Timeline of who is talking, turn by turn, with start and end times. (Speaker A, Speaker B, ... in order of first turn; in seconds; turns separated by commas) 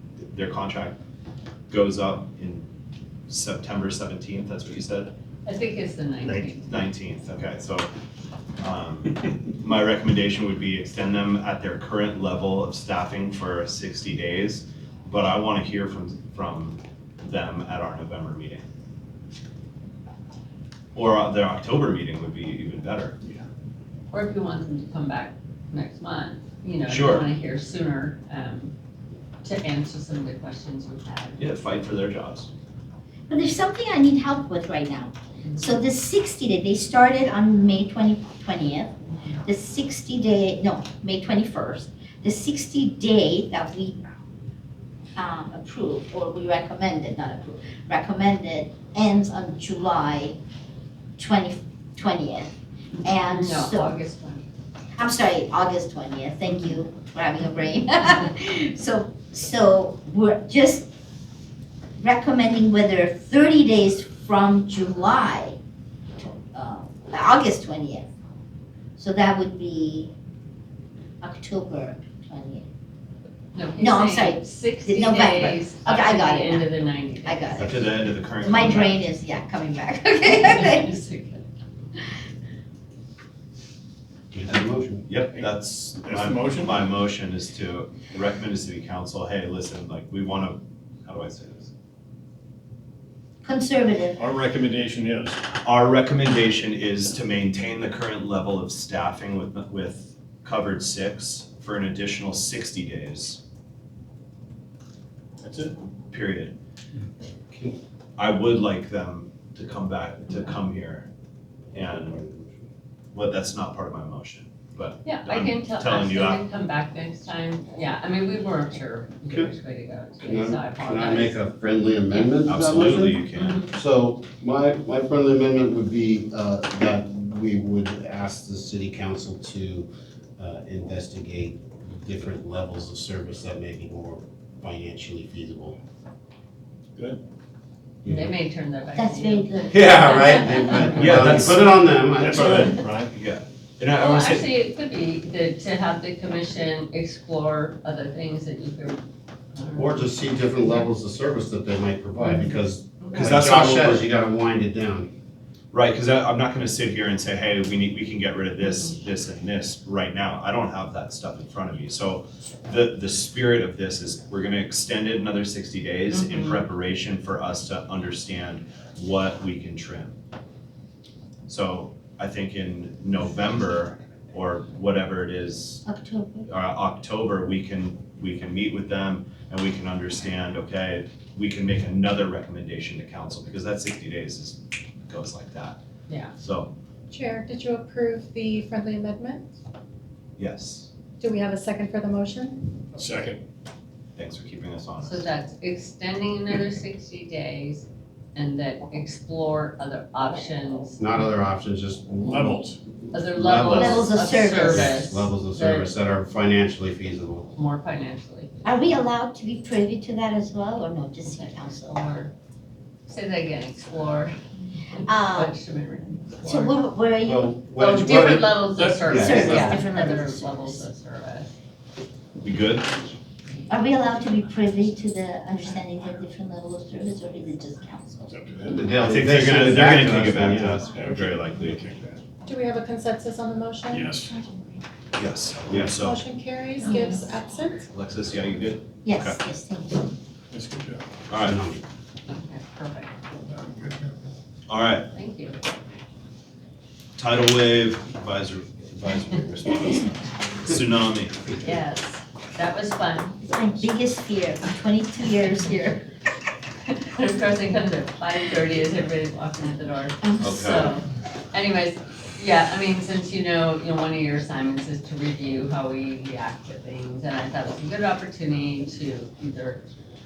Speaker A: 0.3-1.0, Speaker A: 1.7-2.7, Speaker A: 3.3-5.1, Speaker B: 5.5-6.7, Speaker A: 6.5-7.9, Speaker A: 8.6-18.6, Speaker A: 20.9-23.2, Speaker B: 24.1-28.7, Speaker A: 26.9-27.2, Speaker B: 29.4-31.4, Speaker A: 31.4-32.5, Speaker C: 33.3-44.0, Speaker B: 35.5-35.8, Speaker B: 39.1-39.4, Speaker C: 45.1-50.4, Speaker C: 51.2-52.5, Speaker C: 53.0-54.0, Speaker B: 53.0-54.4, Speaker C: 55.0-60.9, Speaker B: 56.5-56.7, Speaker C: 62.0-65.6, Speaker C: 66.2-68.1, Speaker C: 69.0-70.1, Speaker C: 71.2-72.7, Speaker B: 73.5-77.7, Speaker C: 73.8-76.7, Speaker C: 77.2-77.8, Speaker A: 77.6-79.0, Speaker D: 77.6-77.9, Speaker C: 78.4-81.0, Speaker B: 78.6-78.9, Speaker B: 80.2-81.4, Speaker D: 84.3-85.0, Speaker A: 84.5-91.7, Speaker E: 85.3-86.8, Speaker C: 93.4-94.2, Speaker E: 94.2-95.4, Speaker A: 95.6-103.4, Speaker E: 105.4-105.8, Speaker A: 106.1-106.5, Speaker A: 108.2-111.1, Speaker A: 111.7-112.3, Speaker D: 111.8-112.5, Speaker A: 113.1-116.4, Speaker B: 115.0-121.4, Speaker D: 120.2-135.8, Speaker A: 122.5-123.7, Speaker B: 123.3-123.7, Speaker D: 138.1-138.3, Speaker B: 138.1-140.9, Speaker C: 138.9-140.9, Speaker D: 139.7-142.7, Speaker A: 140.9-144.5, Speaker E: 142.2-143.1, Speaker B: 144.0-149.0, Speaker B: 149.5-150.1, Speaker D: 149.7-155.1, Speaker A: 153.1-154.1, Speaker A: 155.7-170.2, Speaker B: 158.6-158.9, Speaker B: 166.1-166.7, Speaker A: 171.5-175.8, Speaker C: 175.9-176.5, Speaker A: 176.5-185.8, Speaker B: 186.1-186.3, Speaker A: 186.4-186.7, Speaker F: 187.1-189.5, Speaker A: 190.4-190.9, Speaker F: 191.2-192.7, Speaker E: 192.9-193.4, Speaker A: 194.2-195.3, Speaker B: 195.0-201.1, Speaker D: 201.0-202.7, Speaker E: 202.2-202.8, Speaker B: 203.1-205.9, Speaker D: 203.2-207.5, Speaker C: 203.6-205.1, Speaker B: 207.5-209.0, Speaker C: 208.6-212.2, Speaker B: 211.3-212.3, Speaker B: 213.1-214.3, Speaker B: 214.9-216.8, Speaker C: 215.1-215.6, Speaker C: 216.4-217.5, Speaker D: 217.2-219.8, Speaker B: 217.8-221.5, Speaker E: 218.8-219.1, Speaker C: 219.1-220.9, Speaker A: 222.4-222.9, Speaker C: 223.7-228.3, Speaker E: 228.3-228.9, Speaker D: 228.7-230.9, Speaker A: 229.0-231.8, Speaker E: 230.9-232.2, Speaker F: 232.5-234.6, Speaker E: 233.9-234.4, Speaker A: 235.2-236.2, Speaker F: 235.8-237.9, Speaker C: 236.8-237.3, Speaker A: 237.9-239.4, Speaker C: 239.0-240.1, Speaker E: 240.5-241.0, Speaker A: 241.3-241.6, Speaker D: 241.4-241.8, Speaker B: 242.3-243.1, Speaker E: 243.5-243.9, Speaker A: 244.7-245.1, Speaker B: 245.1-245.6, Speaker A: 247.2-251.6, Speaker B: 251.6-253.4, Speaker C: 253.5-256.0, Speaker B: 256.9-269.8, Speaker C: 260.2-260.9, Speaker A: 260.4-260.9